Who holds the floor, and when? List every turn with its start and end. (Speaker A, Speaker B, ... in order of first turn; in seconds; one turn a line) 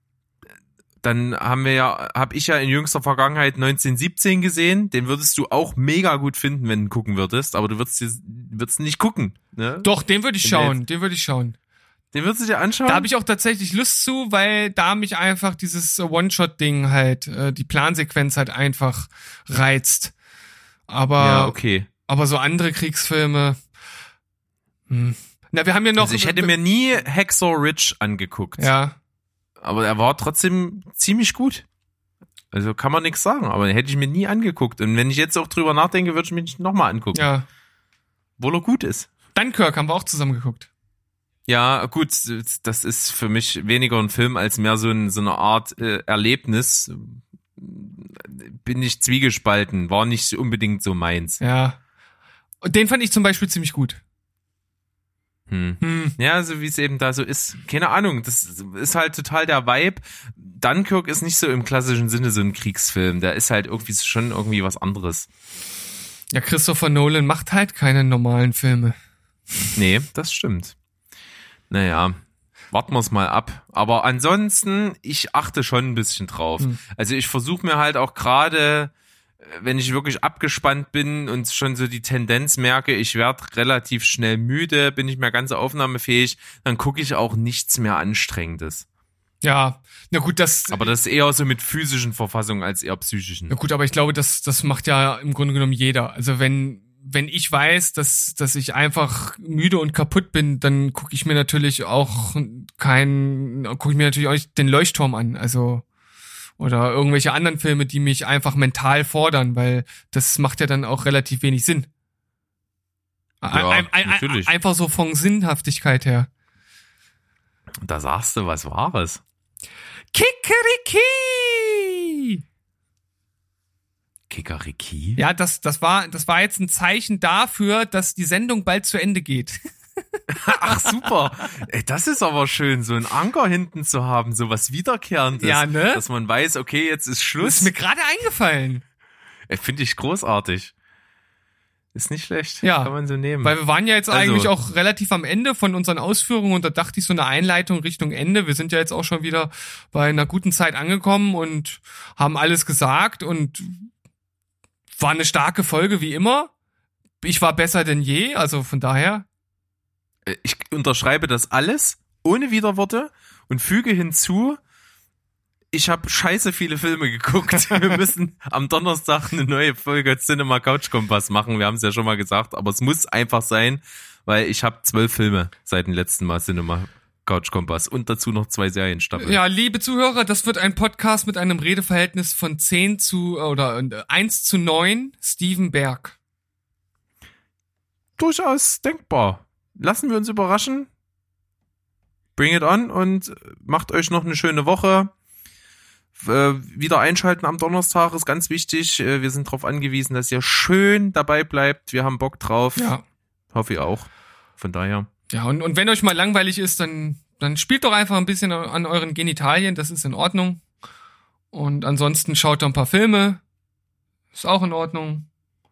Speaker A: 1.0-9.9
Speaker B: 9.8-11.6
Speaker A: 10.4-10.8
Speaker A: 12.1-13.1
Speaker B: 12.8-20.1
Speaker B: 20.9-21.5
Speaker A: 21.2-21.9
Speaker B: 22.1-23.6
Speaker B: 24.9-26.5
Speaker A: 26.0-28.7
Speaker B: 28.6-28.9
Speaker A: 29.6-31.6
Speaker A: 32.5-37.2
Speaker B: 37.1-37.5
Speaker A: 38.4-39.1
Speaker B: 39.3-40.7
Speaker A: 41.5-51.4
Speaker B: 51.4-51.8
Speaker B: 52.6-54.0
Speaker A: 55.5-65.3
Speaker B: 55.8-56.1
Speaker B: 66.3-69.0
Speaker A: 69.8-70.8
Speaker A: 71.7-72.2
Speaker A: 72.7-88.8
Speaker B: 89.4-90.9
Speaker A: 90.7-93.5
Speaker B: 93.5-105.8
Speaker B: 106.6-111.9
Speaker B: 113.4-116.3
Speaker A: 113.5-114.5
Speaker A: 117.8-119.2
Speaker B: 120.1-122.4
Speaker A: 124.3-125.2
Speaker B: 125.2-129.6
Speaker A: 130.3-137.7
Speaker B: 130.5-131.1
Speaker B: 135.4-136.0
Speaker B: 137.4-138.8
Speaker A: 139.5-140.7
Speaker A: 141.9-143.5
Speaker B: 142.6-153.9
Speaker A: 144.1-144.5
Speaker B: 154.9-156.5
Speaker B: 157.2-159.2
Speaker A: 160.2-164.6
Speaker A: 165.7-179.4
Speaker B: 179.2-186.2
Speaker A: 188.2-190.9
Speaker A: 192.3-195.1
Speaker A: 196.2-202.9
Speaker B: 202.8-203.0
Speaker A: 203.5-205.1
Speaker B: 205.3-210.6
Speaker B: 211.5-213.4
Speaker B: 214.3-215.2